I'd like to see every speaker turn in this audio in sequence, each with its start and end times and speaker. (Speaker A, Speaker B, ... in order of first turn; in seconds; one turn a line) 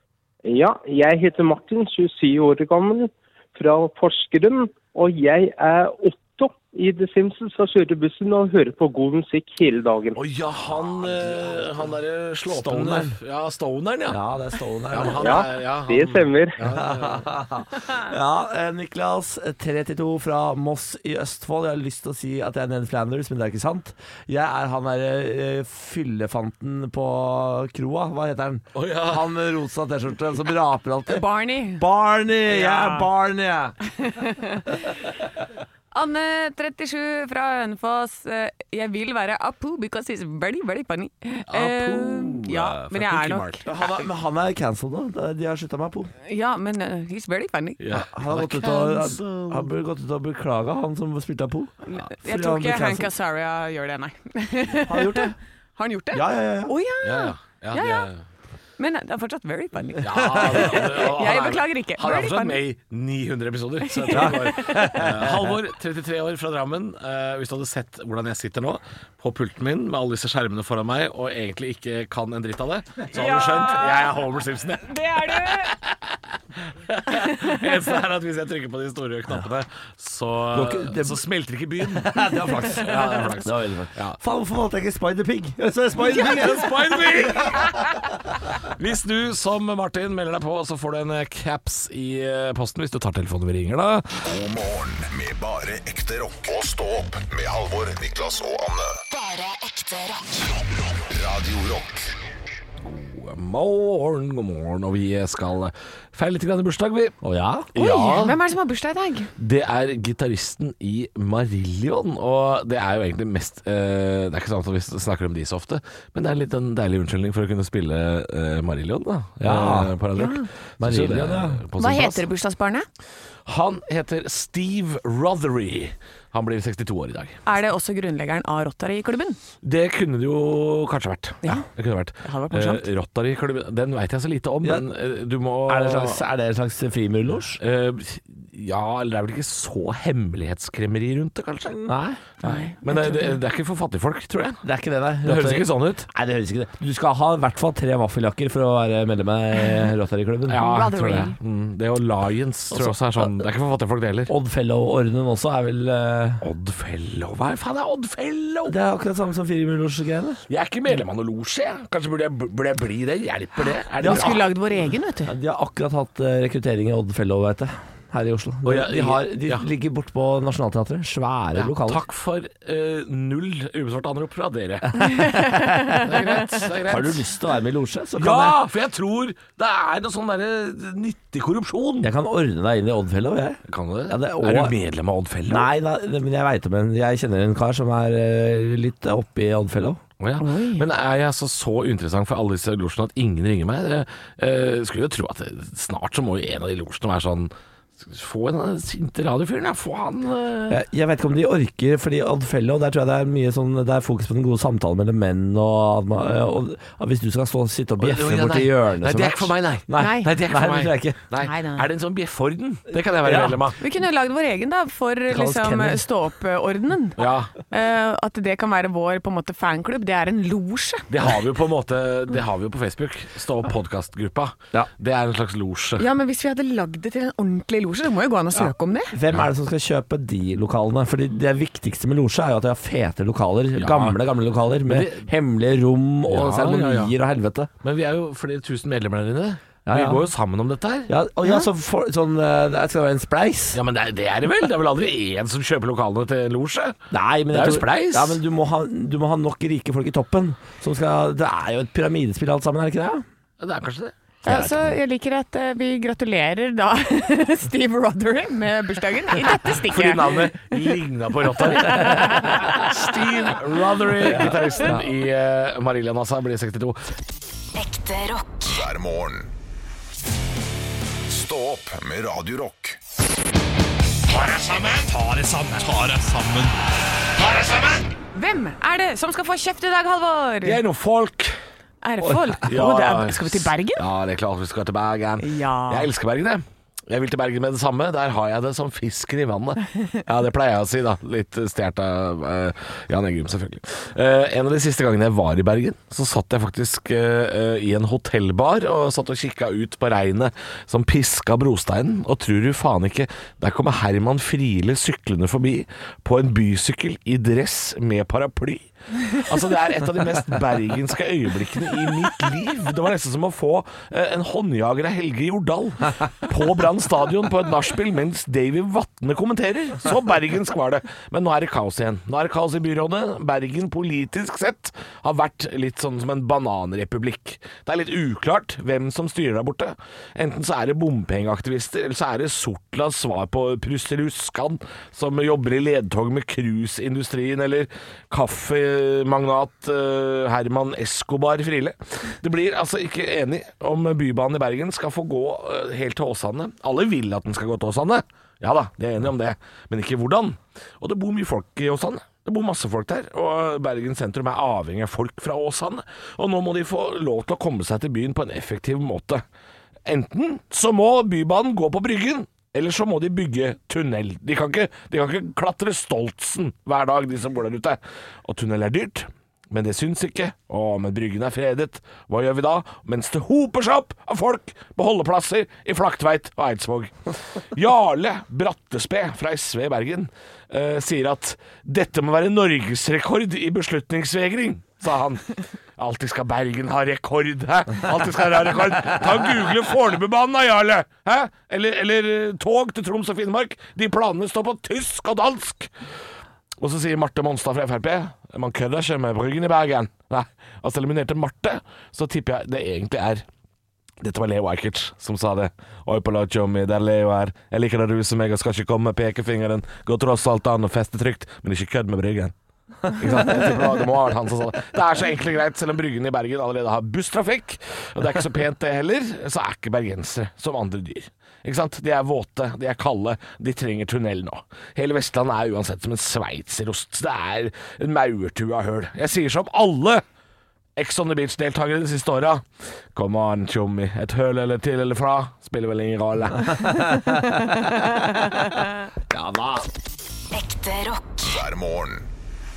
Speaker A: 0.4-10.2
Speaker B: 10.2-14.2
Speaker C: 12.5-13.2
Speaker C: 14.1-15.4
Speaker B: 14.9-17.2
Speaker A: 15.2-16.6
Speaker C: 16.6-33.8
Speaker B: 28.7-29.3
Speaker D: 31.1-31.8
Speaker D: 32.5-33.1
Speaker D: 34.0-34.8
Speaker D: 35.9-43.7
Speaker B: 41.5-43.6
Speaker C: 43.6-46.1
Speaker D: 46.2-47.8
Speaker B: 47.8-49.6
Speaker C: 47.9-53.1
Speaker D: 51.9-58.1
Speaker C: 54.9-55.3
Speaker C: 56.1-56.7
Speaker B: 57.0-58.2
Speaker D: 58.8-62.6
Speaker B: 60.0-76.2
Speaker D: 63.9-65.0
Speaker C: 64.1-65.6
Speaker D: 73.1-74.2
Speaker D: 74.8-75.7
Speaker B: 76.9-84.2
Speaker C: 80.5-81.2
Speaker C: 81.8-87.8
Speaker D: 82.9-83.2
Speaker B: 86.0-94.2
Speaker E: 94.2-99.0
Speaker F: 99.1-100.6
Speaker E: 101.0-102.1
Speaker B: 102.8-107.2
Speaker C: 107.2-107.7
Speaker B: 107.7-108.4
Speaker D: 107.7-109.3
Speaker B: 109.4-122.2
Speaker C: 119.4-120.0
Speaker D: 120.2-120.5
Speaker C: 120.8-121.6
Speaker D: 121.8-122.9
Speaker B: 123.5-127.4
Speaker D: 127.5-129.4
Speaker B: 129.6-136.2
Speaker D: 132.2-132.8
Speaker C: 135.7-137.6
Speaker B: 137.6-141.8
Speaker C: 141.7-142.2
Speaker D: 142.4-143.4
Speaker B: 142.4-144.6
Speaker C: 144.6-150.8
Speaker B: 145.2-146.1
Speaker B: 150.5-154.3
Speaker D: 150.6-151.3
Speaker C: 152.7-153.3
Speaker C: 154.3-156.4
Speaker B: 156.4-158.7
Speaker C: 158.7-160.4
Speaker B: 160.5-164.5
Speaker C: 164.0-164.4
Speaker D: 164.0-165.3
Speaker C: 165.2-172.0
Speaker B: 168.6-169.7
Speaker B: 171.5-175.0
Speaker C: 175.0-176.0
Speaker D: 175.0-176.1
Speaker B: 176.0-177.2
Speaker C: 176.8-178.6
Speaker B: 178.2-182.1
Speaker C: 182.0-184.7
Speaker B: 183.7-185.7
Speaker C: 185.5-190.0
Speaker B: 190.2-200.8
Speaker D: 190.4-190.8
Speaker C: 200.7-211.2
Speaker B: 208.0-213.8
Speaker D: 210.0-210.3
Speaker D: 211.4-211.8
Speaker C: 213.1-213.6
Speaker D: 213.8-221.1
Speaker C: 215.3-216.1
Speaker B: 217.2-217.5
Speaker B: 221.1-226.0
Speaker D: 226.0-229.2
Speaker C: 228.6-237.7
Speaker B: 233.8-234.2
Speaker B: 234.8-235.3
Speaker B: 236.3-237.1
Speaker B: 237.8-241.1
Speaker C: 239.8-240.2
Speaker C: 241.1-243.8
Speaker B: 243.7-247.0
Speaker C: 247.1-253.2
Speaker B: 247.5-248.4
Speaker B: 253.6-254.1
Speaker D: 254.4-260.5
Speaker C: 254.4-254.9
Speaker B: 259.8-267.0
Speaker D: 261.7-263.1
Speaker C: 264.2-265.0
Speaker F: 267.7-268.6
Speaker E: 268.6-269.5
Speaker E: 271.3-273.0
Speaker B: 274.3-276.8
Speaker B: 277.3-278.1
Speaker D: 278.3-280.8
Speaker B: 280.6-281.6
Speaker D: 282.0-284.0
Speaker B: 282.2-359.4
Speaker D: 285.4-286.1
Speaker B: 360.1-395.9
Speaker B: 396.8-403.4
Speaker B: 404.2-412.5
Speaker B: 413.1-430.2
Speaker B: 431.0-432.6
Speaker B: 433.1-436.8
Speaker C: 436.6-438.6
Speaker D: 437.3-438.7
Speaker C: 439.3-439.9
Speaker F: 440.5-441.6
Speaker E: 441.4-442.3